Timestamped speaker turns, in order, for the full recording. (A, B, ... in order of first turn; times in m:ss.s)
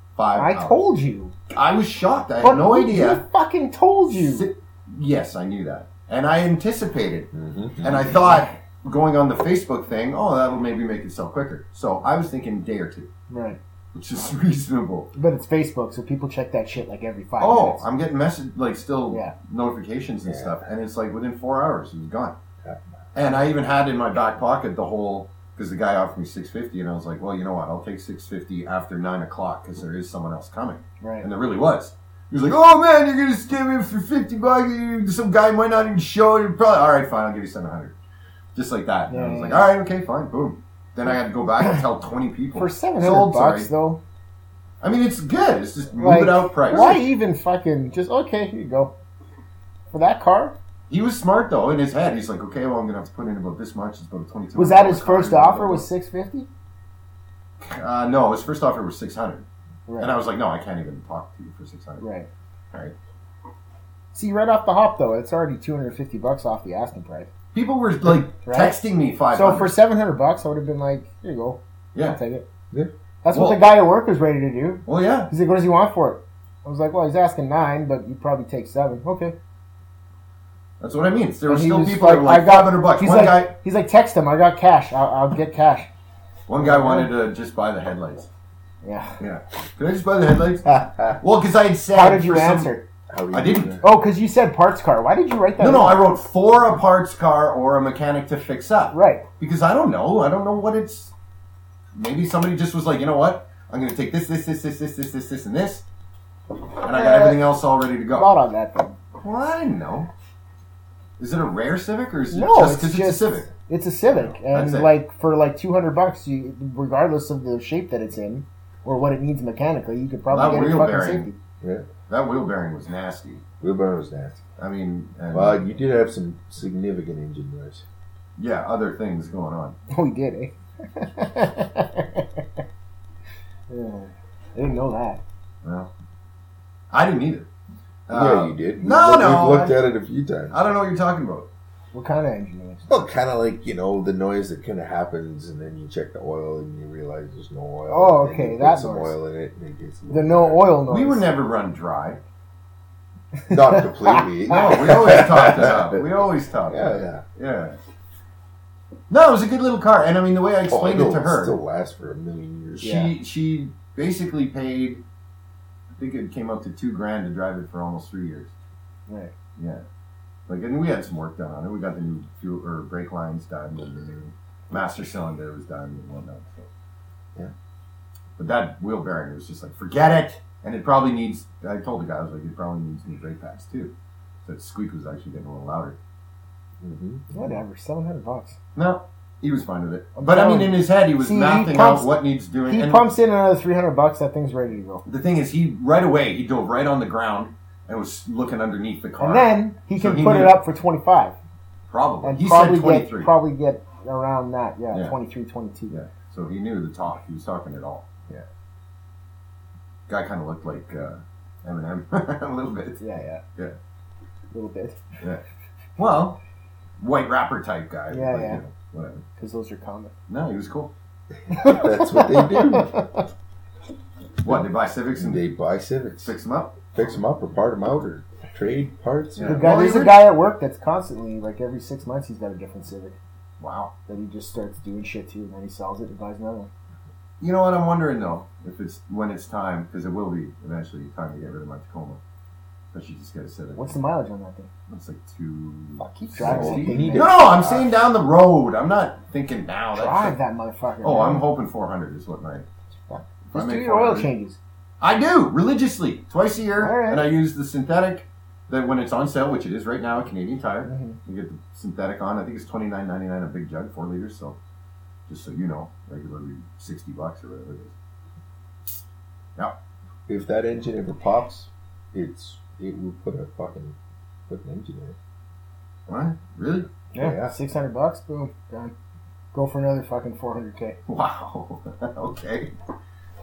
0:00.2-0:00.8 A
0:00.3-0:01.3 B
0:01.5-0:03.2 A
0:02.4-0:04.5 B
0:04.1-0:07.3 A
0:07.3-0:08.3 C
0:07.8-0:13.1 A
0:13.3-0:13.6 B
0:13.9-0:15.1 A
0:15.1-0:17.8 B
0:17.4-0:22.4 A
0:20.2-0:20.6 C
0:23.2-0:37.9 A
0:31.0-0:31.3 B
0:38.6-0:43.7 A
0:39.1-0:39.7 B
0:42.6-0:44.0 B
0:44.8-0:47.0 A
0:46.0-0:48.9 B
0:49.9-0:50.6 B
0:50.9-0:55.9 A
0:54.6-0:56.5 B
0:57.6-0:59.5 A
0:59.9-1:00.2 B
1:00.0-1:02.0 A
1:02.0-1:02.3 B
1:04.1-1:07.3 B
1:07.5-1:09.8 A
1:08.4-1:12.5 B
1:13.2-1:19.4 B
1:13.3-1:13.7 A
1:14.9-1:15.3 A
1:20.8-1:23.5 A
1:21.5-1:25.9 B
1:26.5-1:28.3 A
1:26.6-1:27.1 B
1:28.8-1:29.2 B
1:29.2-1:32.7 A
1:30.7-1:31.2 C
1:31.9-1:32.8 B
1:33.1-1:33.8 C
1:33.3-1:33.8 A
1:33.8-1:36.0 B
1:35.6-1:41.1 A
1:38.9-1:39.2 B
1:42.0-1:45.8 A
1:46.8-1:48.3 A
1:46.9-1:47.5 B
1:48.1-1:49.0 B
1:49.2-1:50.1 A
1:51.2-1:53.5 A
1:52.3-2:01.4 B
1:54.1-1:54.9 A
2:00.3-2:01.3 A
2:02.1-2:03.4 A
2:03.6-2:04.4 C
2:04.6-2:05.7 A
2:05.3-2:07.8 C
2:08.4-2:09.8 A
2:09.9-2:12.4 B
2:13.7-2:15.2 B
2:15.6-2:15.9 A
2:16.9-2:17.5 A
2:18.1-2:19.8 A
2:18.1-2:20.6 C
2:20.5-2:21.5 A
2:21.9-2:22.9 B
2:22.9-2:30.7 C
2:27.9-2:29.2 B
2:30.1-2:31.4 B
2:30.9-2:32.2 A
2:33.4-2:34.8 B
2:33.5-2:37.2 C
2:34.5-2:37.8 A
2:39.1-2:41.6 A
2:40.7-2:43.0 C
2:42.8-2:43.1 B
2:42.8-2:45.0 A
2:46.0-2:48.5 A
2:49.1-2:49.3 B
2:49.6-2:49.8 A
2:50.5-2:56.7 A
2:58.4-3:03.9 A
3:04.5-3:06.0 A
3:06.8-3:07.6 C
3:07.3-3:08.6 B
3:08.8-3:13.1 A
3:10.2-3:12.1 B
3:12.7-3:15.0 B
3:15.1-3:20.6 A
3:19.2-3:21.4 B
3:21.9-3:23.3 A
3:22.2-3:26.0 B
3:25.9-3:28.1 A
3:30.1-3:33.0 A
3:33.0-3:33.4 B
3:34.5-3:35.0 B
3:36.0-3:36.4 A
3:37.0-3:39.2 A
3:38.1-3:38.6 B
3:39.4-3:40.1 B
3:40.3-3:40.9 A
3:41.5-3:43.0 C
3:41.5-3:43.3 B
3:44.4-3:45.5 A
3:45.2-3:46.4 C
3:46.2-3:46.8 A
3:46.9-3:49.7 C
3:49.4-3:50.3 A
3:49.4-3:53.2 B
3:53.6-3:53.9 A
3:54.1-3:56.7 B
3:57.4-4:02.2 A
4:02.9-4:04.0 A
4:03.8-4:04.7 B
4:04.9-4:10.4 A
4:06.0-4:07.5 B
4:06.3-4:07.9 C
4:09.9-4:11.5 B
4:11.0-4:12.7 A
4:13.1-4:14.6 B
4:13.5-4:14.3 A
4:15.0-4:24.6 A
4:16.8-4:17.3 B
4:20.9-4:21.2 B
4:25.3-4:28.0 A
4:30.3-4:34.0 C
4:34.5-4:35.2 C
4:36.1-4:36.9 A
4:37.1-4:38.9 B
4:37.2-4:37.6 C
4:39.5-4:41.0 B
4:41.1-4:42.7 A